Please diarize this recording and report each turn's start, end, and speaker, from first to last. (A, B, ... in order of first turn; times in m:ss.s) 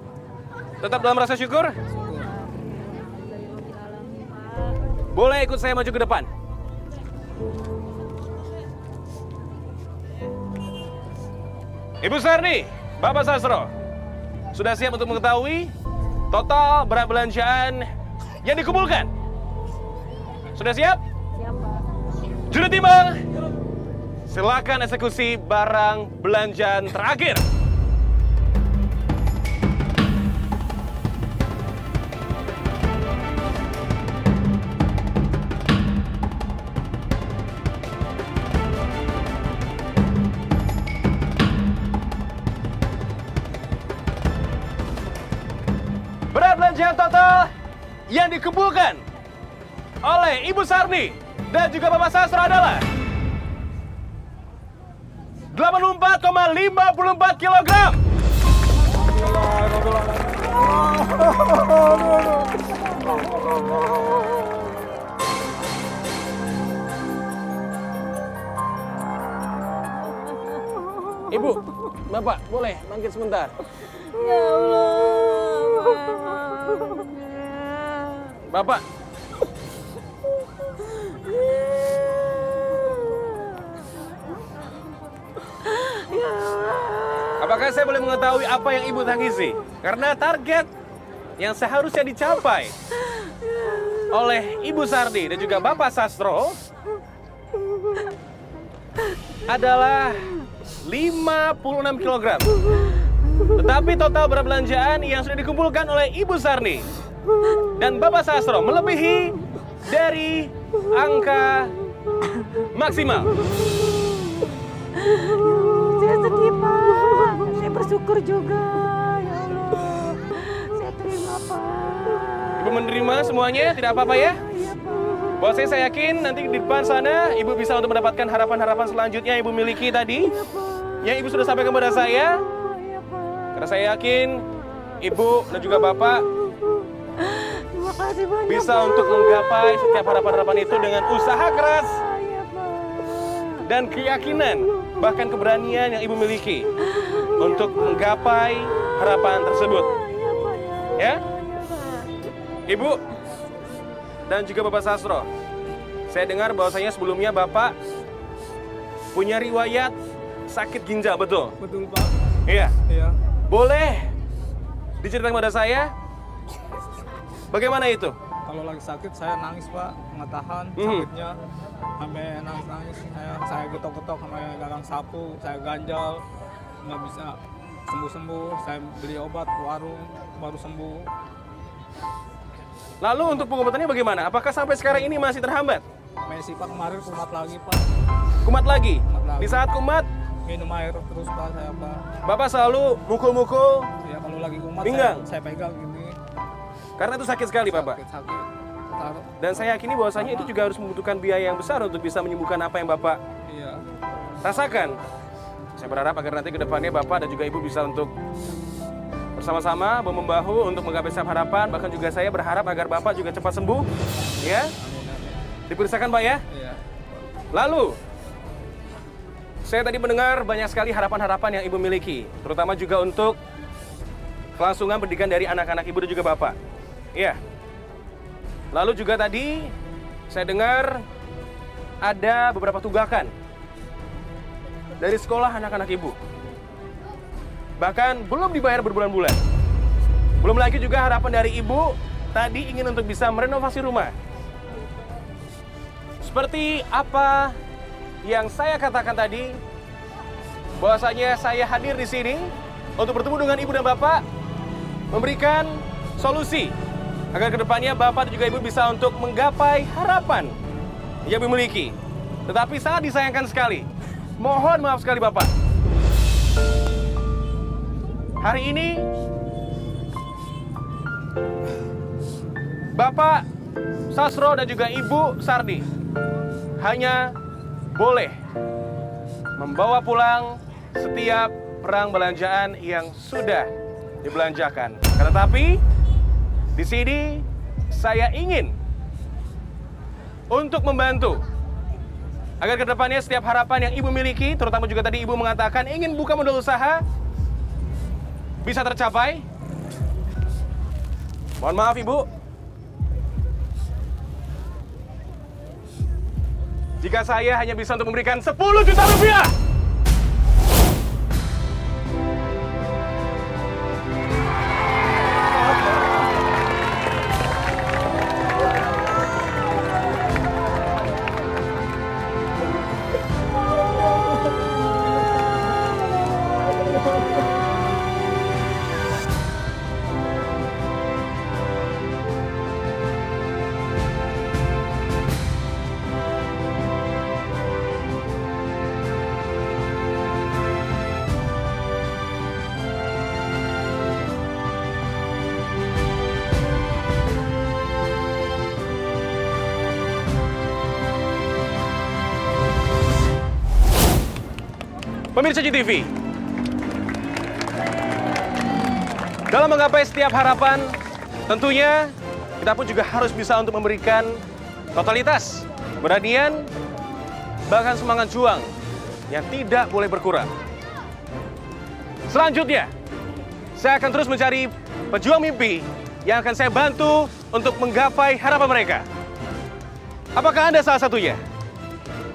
0:00.8-0:01.8 A
0:01.9-0:02.3 B
0:02.6-0:04.8 C
0:05.1-0:06.3 A
0:12.0-0:13.7 A
0:14.5-0:15.7 A
0:16.3-0:17.9 A
0:18.4-0:19.1 A
0:20.5-0:21.0 A
0:22.5-0:23.2 A
0:24.3-0:27.4 A
0:46.3-0:47.5 A
0:48.1-0:49.0 A
0:50.0-0:52.8 A
0:55.5-0:58.0 A
0:59.1-1:02.4 B
1:11.3-1:13.6 A
1:14.1-1:18.2 C
1:18.4-1:18.8 A
1:20.9-1:23.7 C
1:25.7-1:27.4 C
1:27.4-1:30.7 A
1:31.4-1:32.8 A
1:33.3-1:34.0 C
1:33.9-1:36.6 A
1:39.5-1:42.9 A
1:43.5-1:46.9 A
1:47.5-1:51.7 A
1:52.6-1:53.3 A
1:53.6-2:02.6 C
2:02.6-2:04.4 A
2:04.5-2:05.4 C
2:05.2-2:12.5 A
2:10.4-2:10.9 C
2:12.5-2:13.5 C
2:13.5-2:14.5 A
2:15.0-2:16.3 A
2:16.5-2:20.0 C
2:18.4-2:22.0 A
2:22.0-2:23.6 C
2:23.6-2:30.0 A
2:26.9-2:27.3 C
2:30.0-2:32.1 C
2:30.9-2:31.3 A
2:32.7-2:33.0 A
2:34.2-2:35.3 A
2:36.1-2:37.7 A
2:39.1-2:39.9 A
2:40.5-2:41.5 A
2:41.6-2:42.3 B
2:42.4-2:42.8 A
2:42.9-2:43.2 B
2:43.5-2:44.1 A
2:45.0-2:45.9 A
2:47.5-2:48.1 A
2:48.5-2:51.4 B
2:50.8-2:51.1 A
2:52.0-2:56.2 B
2:56.8-3:01.1 B
3:03.0-3:05.8 A
3:06.2-3:07.8 B
3:08.4-3:10.1 A
3:09.1-3:09.6 B
3:10.4-3:12.0 B
3:12.2-3:13.9 A
3:14.0-3:16.2 B
3:14.8-3:15.2 A
3:17.0-3:18.0 A
3:17.7-3:19.3 B
3:19.4-3:23.2 A
3:20.1-3:20.5 B
3:23.5-3:23.8 B
3:24.4-3:25.0 A
3:25.8-3:28.1 A
3:29.4-3:33.9 A
3:34.4-3:34.7 A
3:34.4-3:35.4 B
3:35.7-3:36.4 A
3:36.5-3:37.0 B
3:37.5-3:38.0 A
3:39.6-3:43.4 A
3:44.6-3:46.6 A
3:48.7-3:49.7 A
3:50.3-3:51.0 A
3:52.0-3:53.3 A
3:55.0-3:56.2 A
3:57.8-3:59.4 A
4:00.4-4:04.1 A
4:06.2-4:07.6 A
4:08.2-4:09.6 A
4:10.8-4:14.2 A
4:15.1-4:16.7 A
4:17.3-4:20.5 A
4:21.2-4:22.0 A
4:22.5-4:23.9 A
4:24.4-4:25.5 A
4:28.4-4:29.1 A
4:32.9-4:33.4 A
4:34.1-4:35.8 A
4:36.8-4:37.3 A
4:37.9-4:38.4 A
4:39.6-4:43.7 A
4:44.2-4:45.8 A
4:46.7-4:48.8 A
4:50.5-4:51.4 A
4:52.6-4:57.0 A
4:58.6-4:59.4 A
5:01.6-5:02.3 A
5:07.0-5:09.5 A
5:55.3-5:56.1 A
5:59.5-6:04.4 A
6:04.9-6:06.7 A
6:07.7-6:08.7 A
6:09.3-6:10.5 A
6:12.3-6:12.9 A
6:13.8-6:19.0 A
6:20.3-6:21.4 A